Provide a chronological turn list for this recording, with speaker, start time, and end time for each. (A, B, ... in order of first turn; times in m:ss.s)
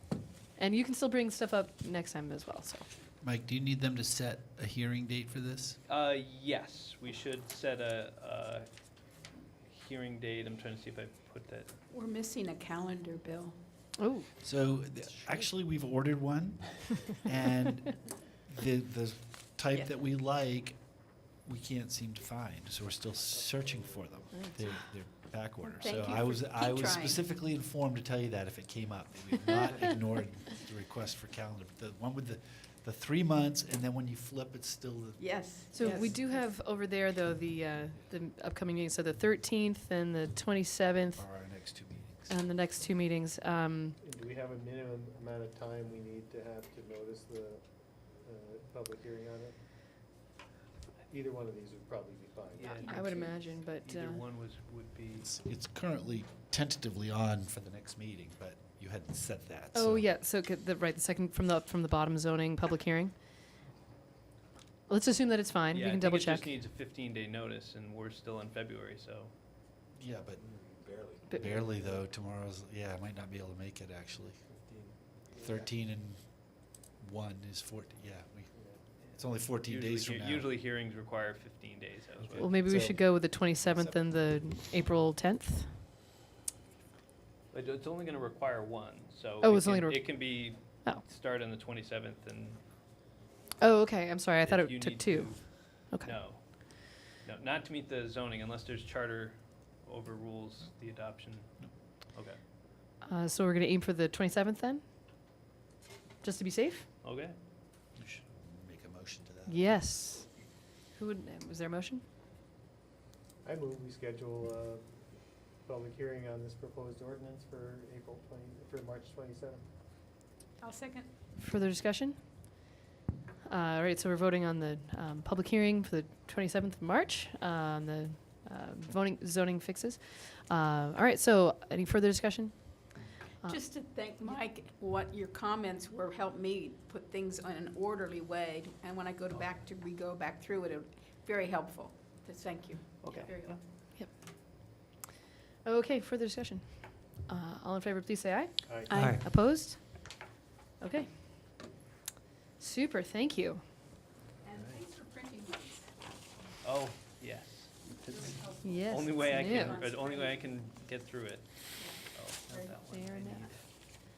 0:00.6-0:02.9 A
0:03.2-0:05.8 B
0:05.9-0:08.7 C
0:09.7-0:11.7 C
0:11.9-0:13.6 D
0:14.0-0:14.3 A
0:14.4-0:36.2 B
0:23.6-0:24.5 E
0:25.6-0:27.2 D
0:35.2-0:36.4 D
0:35.7-0:41.2 A
0:41.2-0:42.4 B
0:42.3-0:44.0 A
0:44.0-0:49.6 E
0:51.1-0:53.1 E
0:52.5-0:55.3 C
0:52.6-0:52.9 D
0:52.7-0:54.2 A
0:55.2-1:00.1 B
0:59.7-1:03.2 A
1:04.9-1:06.6 A
1:05.7-1:09.3 C
1:10.0-1:14.5 B
1:10.4-1:12.1 E
1:14.5-1:15.7 E
1:15.3-1:20.5 B
1:18.5-1:18.8 E
1:19.0-1:22.5 C
1:22.2-1:24.0 B
1:22.4-1:25.8 A
1:27.5-1:32.6 C
1:29.4-1:31.0 A
1:33.6-1:36.2 A
1:34.4-1:42.4 C
1:43.0-1:44.8 A
1:46.2-1:46.9 A
1:47.0-1:47.4 C
1:48.0-1:50.0 B
1:49.5-1:52.0 A
1:53.4-1:54.9 E
1:55.6-1:59.6 E
2:00.6-2:01.1 D
2:01.4-2:02.2 A
2:03.4-2:13.6 A
2:13.4-2:23.6 D
2:23.0-2:23.6 C
2:25.6-2:30.2 A
2:28.7-2:29.1 E
2:28.9-2:29.2 D
2:30.8-2:31.6 A
2:32.6-2:33.6 A
2:34.4-2:35.9 D
2:36.6-2:43.6 C
2:38.0-2:40.5 D
2:38.6-2:39.8 A
2:42.5-2:43.5 A